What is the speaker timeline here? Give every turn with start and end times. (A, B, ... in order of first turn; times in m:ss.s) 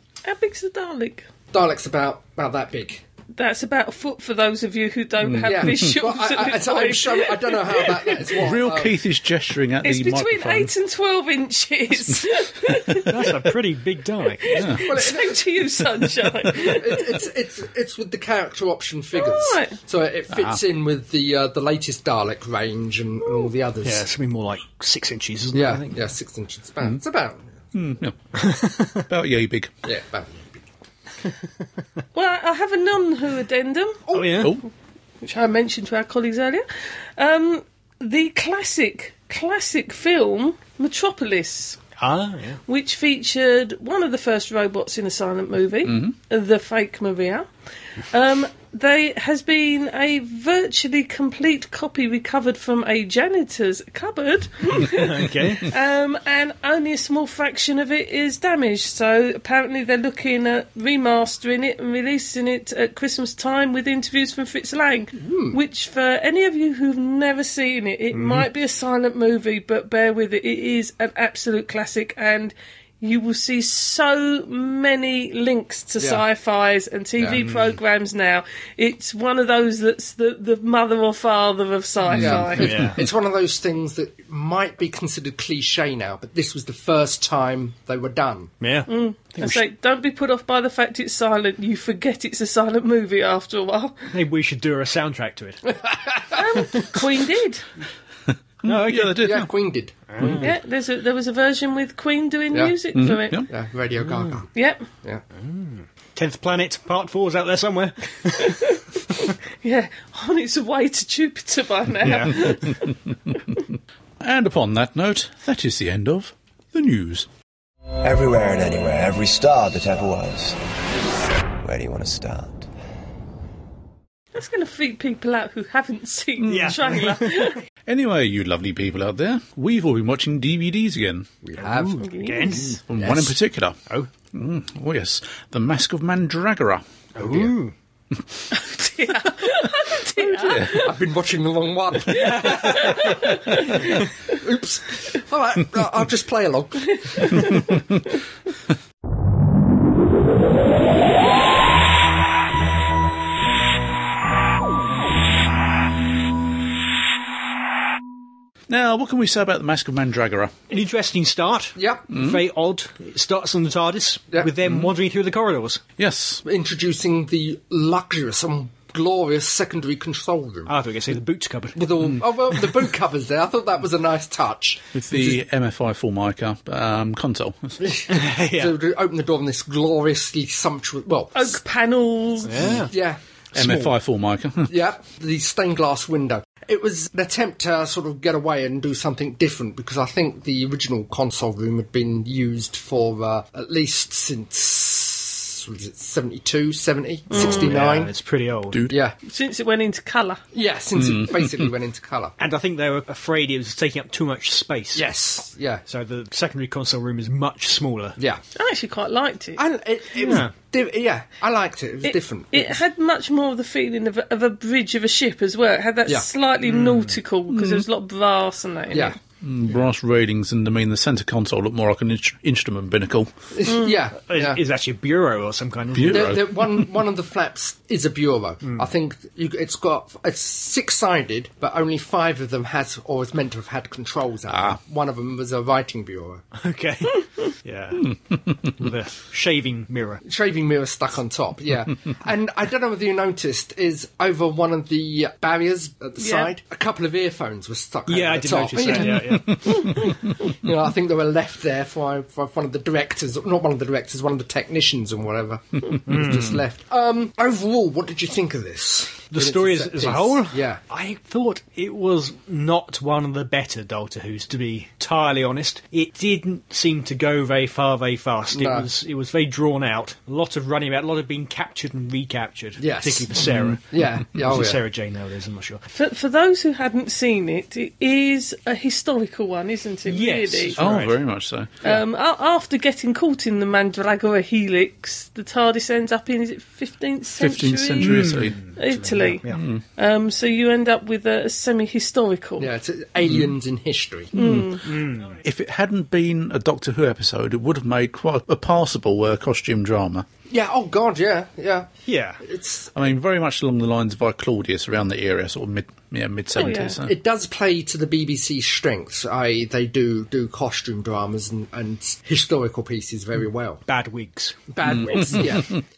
0:00.2-0:01.3 A
0:01.5-0:03.0 B
0:03.4-0:08.4 A
0:05.2-0:05.9 C
0:05.4-0:09.0 B
0:08.4-0:10.7 C
0:09.8-0:13.6 A
0:13.1-0:14.7 D
0:14.4-0:17.2 A
0:14.5-0:14.8 C
0:14.8-0:15.7 B
0:16.5-0:24.1 B
0:19.2-0:19.8 A
0:20.3-0:20.6 C
0:23.8-0:26.0 D
0:25.5-0:27.5 B
0:27.7-0:28.2 C
0:28.4-0:29.1 D
0:29.0-0:29.7 C
0:29.8-0:30.7 B
0:32.1-0:34.0 A
0:34.1-0:34.5 B
0:34.1-0:34.6 D
0:35.2-0:36.7 A
0:37.2-0:41.8 A
0:42.0-0:42.6 D
0:42.7-0:47.5 A
0:45.8-0:46.1 C
0:48.1-1:22.8 A
0:54.7-0:55.7 D
1:05.2-1:05.6 B
1:08.1-1:08.5 D
1:16.0-1:16.2 B
1:17.2-1:17.4 B
1:22.1-1:28.5 B
1:22.6-1:23.0 D
1:28.6-1:29.6 D
1:28.9-1:34.1 A
1:34.1-1:35.7 D
1:35.8-1:36.4 B
1:36.3-1:37.6 A
1:38.6-1:39.5 C
1:38.6-1:39.3 D
1:39.2-1:40.3 B
1:40.1-1:40.5 D
1:40.4-1:43.4 A
1:42.9-1:43.5 C
1:43.3-1:44.5 B
1:44.1-1:44.4 D
1:44.6-1:44.8 A
1:45.4-1:49.2 D
1:49.6-1:52.9 A
1:52.0-1:52.6 D
1:54.2-1:57.3 C
1:58.0-2:00.6 E
2:01.6-2:02.7 E
2:04.4-2:07.6 A
2:06.4-2:06.8 C
2:06.5-2:07.6 D
2:07.9-2:11.3 C
2:11.4-2:13.4 B
2:11.6-2:12.8 D
2:12.0-2:12.7 A
2:12.8-2:13.8 C
2:14.3-2:16.8 C
2:17.2-2:17.8 D
2:17.2-2:17.6 B
2:18.5-2:20.9 A
2:20.2-2:20.8 C
2:20.6-2:23.2 B
2:22.1-2:23.9 A
2:22.2-2:23.1 D
2:24.3-2:27.5 B
2:27.1-2:27.7 A
2:38.7-2:40.6 C
2:40.7-2:45.8 D
2:41.8-2:42.1 B
2:42.1-2:42.4 C
2:44.6-2:44.9 C
2:46.0-2:46.4 C
2:46.4-2:50.7 B
2:50.7-2:52.1 D
2:51.8-2:55.4 B
2:54.9-2:57.8 C
2:57.8-3:01.6 B
2:58.1-2:58.8 D
3:01.4-3:02.8 A
3:02.4-3:02.9 D
3:02.6-3:03.2 B
3:03.5-3:04.8 C
3:03.6-3:03.9 D
3:04.7-3:18.1 B
3:17.3-3:17.6 A
3:17.3-3:18.9 D
3:18.9-3:19.2 B
3:19.3-3:20.4 A
3:20.5-3:22.4 B
3:21.0-3:21.7 C
3:22.4-3:25.1 D
3:25.0-3:25.8 B
3:25.9-3:28.2 D
3:28.2-3:28.4 B
3:28.6-3:29.6 A
3:29.6-3:32.8 B
3:30.2-3:30.5 D
3:32.1-3:39.2 A
3:36.6-3:37.2 D
3:37.5-3:37.8 C
3:38.9-3:39.2 B
3:39.4-3:43.3 C
3:43.5-3:44.6 B
3:43.7-3:44.0 A
3:44.3-3:46.4 D
3:45.9-3:46.9 C
3:46.1-3:56.4 B
3:56.6-4:00.2 D
4:00.2-4:20.8 B
4:06.2-4:06.5 A
4:08.1-4:10.1 D
4:16.1-4:16.6 D
4:19.3-4:35.8 D
4:28.5-4:28.9 B
4:32.8-4:33.3 B
4:33.4-4:33.8 C
4:33.9-4:34.8 B
4:35.9-4:40.8 A
4:40.1-4:41.2 D
4:40.8-4:41.7 C
4:41.8-4:52.7 A
4:47.4-4:48.6 C
4:48.0-4:49.6 D
4:49.5-4:49.8 C
4:52.6-4:54.3 B
4:54.4-4:54.8 C
4:54.4-4:54.8 A
4:54.8-4:55.4 D
4:55.3-5:00.3 C
5:00.5-5:01.9 B
5:02.1-5:02.4 D
5:02.4-5:02.9 B
5:03.0-5:07.1 C
5:06.6-5:07.0 A
5:07.0-5:13.8 B
5:13.9-5:14.6 D
5:14.7-5:15.8 B
5:14.8-5:15.8 C